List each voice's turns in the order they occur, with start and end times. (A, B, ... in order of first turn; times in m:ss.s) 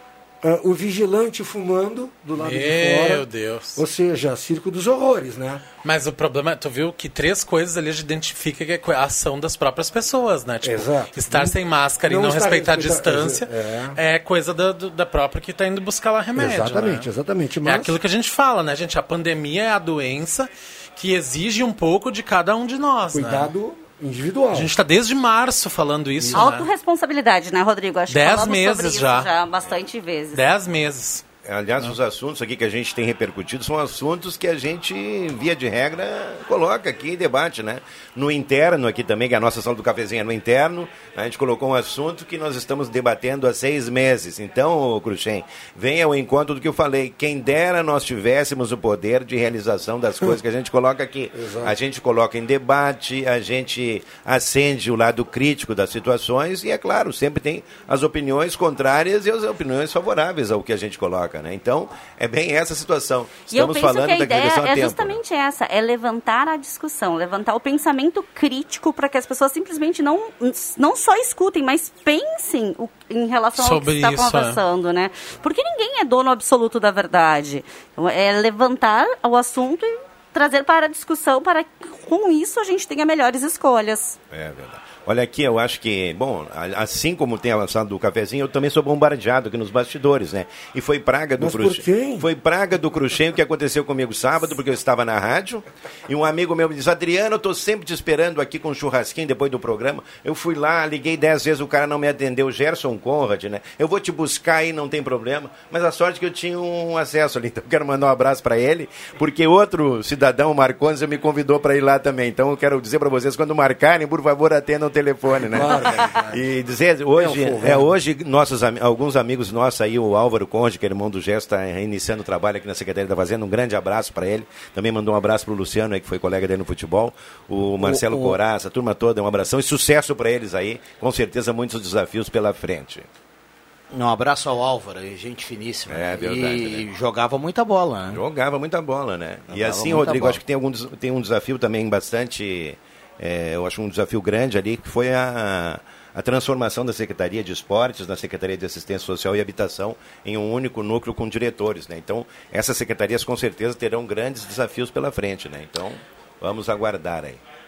0:00.4-0:05.6 A
0:02.4-0:03.8 B
0:05.8-0:17.1 B
0:10.6-0:14.0 A
0:16.4-0:18.0 A
0:17.6-0:23.5 B
0:23.1-0:24.7 A
0:24.5-0:26.7 B
0:26.3-0:30.4 C
0:28.1-0:29.3 B
0:30.3-0:31.2 B
0:31.4-1:05.2 D
0:51.3-0:51.8 A
1:03.5-1:24.2 C
1:13.6-1:14.6 B
1:24.3-2:13.0 D
1:31.4-1:32.3 A
1:55.4-1:56.4 A
1:57.1-1:57.9 A
2:07.8-2:08.4 A
2:13.9-2:18.2 E
2:15.9-2:16.8 D
2:18.1-2:37.4 D
2:19.5-2:20.4 E